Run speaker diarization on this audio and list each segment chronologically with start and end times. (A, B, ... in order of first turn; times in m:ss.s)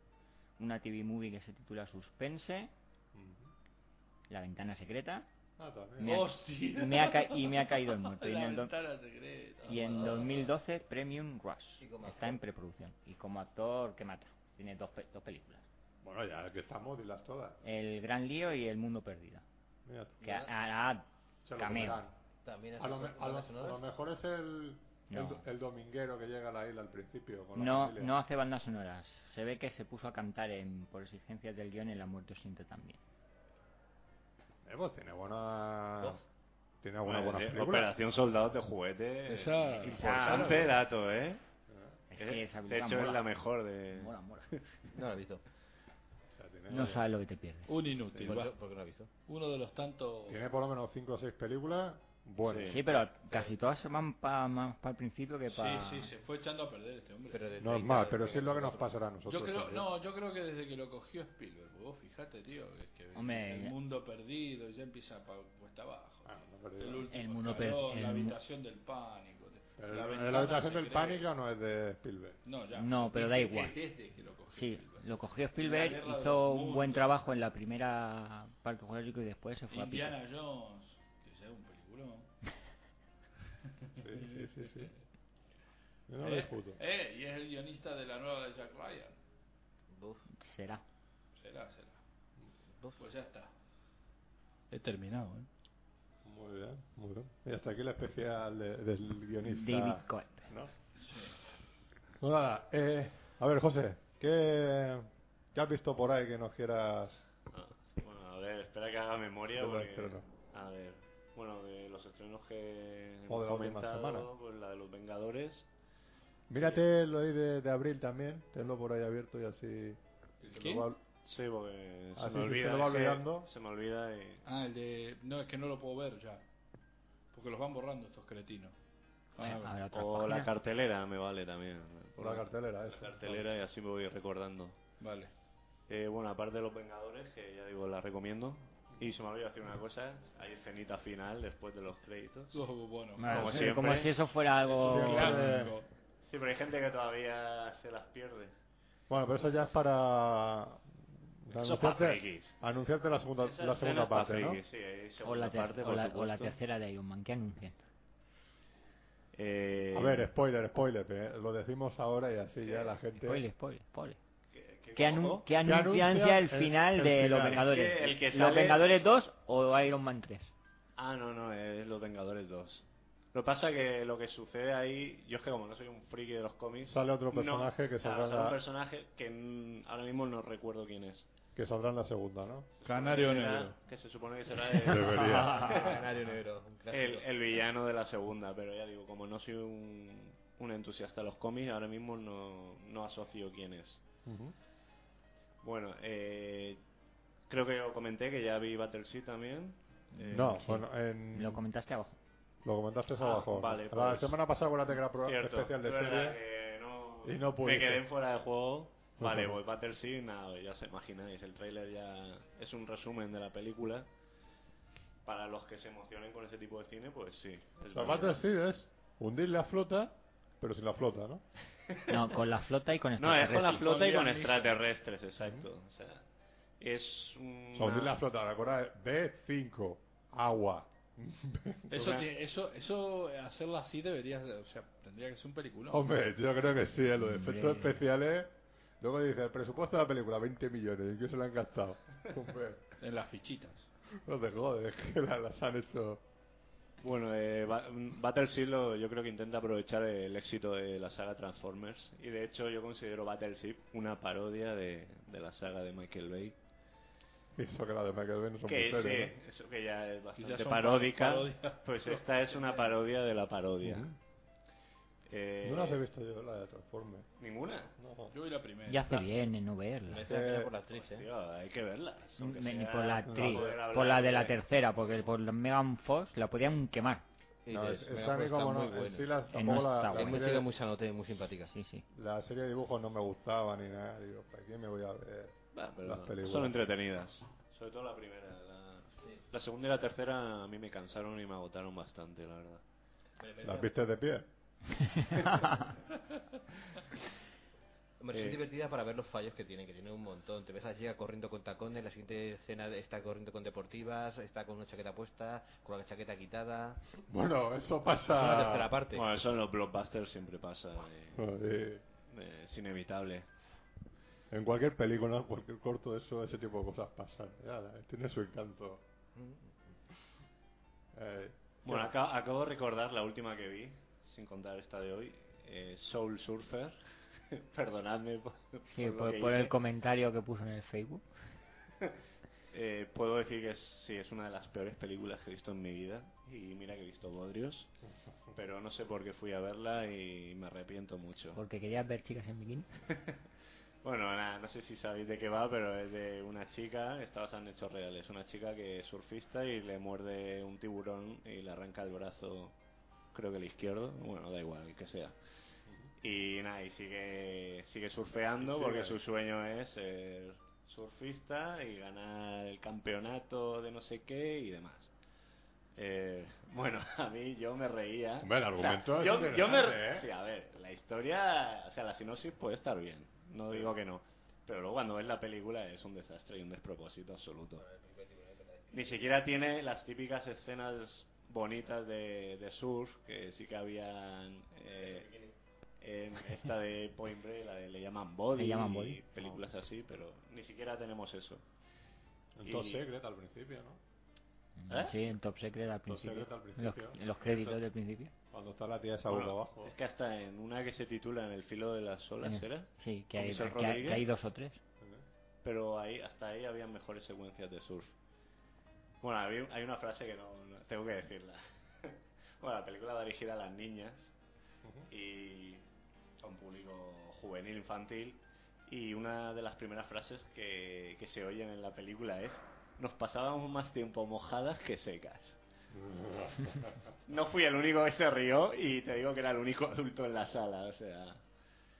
0:00.6-0:02.7 A
0:03.1-0:03.5 B
0:04.3-0:05.3 A
0:05.6-0:06.2 B
0:06.0-0:08.7 A
0:06.0-0:10.4 C
0:09.6-0:15.6 A
0:09.8-0:10.4 D
0:11.8-0:12.4 D
0:16.0-0:17.6 B
0:17.6-0:19.4 A
0:19.8-0:20.3 B
0:20.2-0:20.5 D
0:20.2-0:21.0 A
0:21.4-0:22.1 B
0:21.6-0:22.0 A
0:22.4-0:23.8 D
0:22.8-0:28.1 B
0:25.1-0:25.4 A
0:27.6-0:33.0 A
0:34.6-0:36.2 B
0:36.8-0:37.9 B
0:37.0-0:41.4 E
0:39.2-0:40.7 C
0:39.6-0:40.6 D
0:41.7-0:42.0 B
0:42.1-0:43.3 A
0:42.1-0:44.6 E
0:43.9-0:44.5 A
0:45.0-0:45.4 D
0:46.3-0:47.1 B
0:46.7-0:47.7 A
0:47.7-0:48.5 C
0:48.1-0:49.1 D
0:49.3-0:50.4 C
0:50.3-0:52.9 B
0:52.4-0:53.0 E
0:52.7-0:56.1 A
0:55.5-0:57.4 C
0:57.3-0:58.9 D
0:57.6-0:59.9 B
0:59.3-1:11.3 C
1:03.1-1:03.7 A
1:06.2-1:07.1 B
1:07.1-1:08.4 A
1:09.8-1:12.4 B
1:12.4-1:17.1 C
1:12.7-1:13.8 A
1:14.5-1:20.2 A
1:19.7-1:22.3 C
1:23.7-1:25.0 C
1:24.0-1:24.9 B
1:26.1-1:26.8 B
1:26.2-1:29.2 C
1:29.9-1:30.2 D
1:30.4-1:30.8 A
1:31.4-1:32.0 C
1:33.0-1:33.5 C
1:34.7-1:35.5 C
1:36.2-1:40.7 B
1:39.4-1:40.5 A
1:41.0-1:41.4 C
1:42.2-1:47.2 B
1:47.5-1:55.7 E
1:49.6-1:50.2 B
1:53.3-1:54.3 B
1:56.5-2:01.0 B
1:56.5-1:56.8 E
2:00.5-2:00.9 C
2:01.2-2:04.4 E
2:02.2-2:03.5 B
2:04.4-2:06.4 C
2:07.3-2:08.8 C
2:09.4-2:09.8 C
2:09.4-2:10.5 A
2:09.9-2:14.8 E
2:12.2-2:13.4 B
2:15.0-2:15.3 C
2:15.9-2:22.6 E
2:22.5-2:23.9 C
2:23.2-2:25.7 A
2:23.3-2:24.2 E
2:23.4-2:23.8 B
2:24.6-2:25.9 C
2:24.8-2:25.7 B
2:26.2-2:28.5 E
2:29.1-2:34.6 B
2:31.5-2:32.6 E
2:33.4-2:36.6 E
2:35.2-2:37.8 A
2:39.3-2:40.3 E
2:39.9-2:43.4 B
2:42.6-2:43.0 E
2:43.1-2:44.2 A
2:44.5-2:45.5 E
2:44.9-2:50.5 A
2:45.6-2:47.7 B
2:47.5-2:49.1 E
2:51.0-3:01.3 E
2:56.9-2:58.6 B
3:01.5-3:02.7 B
3:02.8-3:06.0 E
3:02.8-3:03.8 C
3:04.8-3:05.7 B
3:05.2-3:05.8 A
3:05.6-3:07.2 D
3:06.9-3:14.0 E
3:14.2-3:14.5 B
3:15.6-3:16.8 E
3:17.5-3:20.7 E
3:20.1-3:22.2 A
3:20.3-3:21.6 B
3:22.6-3:26.4 B
3:23.2-3:24.4 E
3:25.2-3:34.1 E
3:27.2-3:28.0 B
3:29.2-3:29.6 B
3:35.2-3:38.4 E
3:37.9-3:41.4 B
3:41.9-3:42.2 E
3:42.1-3:43.9 A
3:43.2-3:46.2 E
3:43.6-3:44.8 C
3:45.4-3:45.7 B
3:46.8-3:48.2 E
3:47.7-3:52.0 B
3:51.9-3:56.1 C
3:52.0-3:52.2 E
3:55.9-4:02.8 B
3:57.2-3:58.0 A
4:03.0-4:03.9 C
4:04.2-4:06.2 B
4:07.0-4:16.6 E
4:17.6-4:19.4 B
4:18.6-4:24.1 E
4:20.4-4:22.5 C
4:23.8-4:24.2 B
4:25.3-4:26.0 E
4:25.6-4:27.3 B
4:27.4-4:27.9 E
4:27.9-4:28.3 B
4:28.3-4:29.3 C
4:28.9-4:30.3 A
4:30.1-4:31.3 D
4:30.2-4:30.7 B
4:30.9-4:35.3 E
4:32.4-4:37.2 A
4:33.2-4:33.8 B
4:37.6-4:41.7 D
4:37.7-4:40.7 B
4:39.5-4:40.6 A
4:41.7-4:42.0 A
4:42.1-4:46.8 B
4:45.7-4:52.8 E
4:53.4-4:53.9 D
4:53.6-4:54.5 B
4:58.2-5:07.0 D
4:58.3-4:58.6 E
5:07.2-5:08.9 B
5:08.2-5:09.2 D
5:09.1-5:11.4 E
5:11.3-5:12.0 B
5:12.2-5:13.4 E
5:14.5-5:19.0 B
5:19.4-5:19.9 D
5:21.1-5:22.1 B
5:21.8-5:29.7 E
5:28.9-5:31.2 A
5:32.7-5:37.9 E
5:38.5-5:41.6 E
5:41.6-5:42.9 A
5:43.1-5:43.4 E
5:44.0-5:52.7 E
5:53.3-5:55.4 E
5:56.2-6:05.1 E
5:58.6-5:59.2 B
6:06.0-6:17.8 E
6:08.4-6:10.3 B
6:17.8-6:19.3 D
6:18.9-6:25.3 E
6:24.9-6:25.5 D
6:26.0-6:31.6 E
6:28.5-6:29.2 A
6:32.6-6:34.0 B
6:32.6-6:33.0 E
6:34.8-6:38.3 A
6:34.9-6:35.2 E
6:36.0-6:37.2 B
6:38.5-6:39.9 B
6:39.3-6:44.3 E
6:42.4-6:44.8 A
6:45.6-6:48.1 E
6:49.2-6:54.3 E
6:54.8-6:55.1 B
6:55.1-6:55.8 E
6:56.4-7:05.6 E
7:05.9-7:07.1 B
7:07.2-7:11.4 E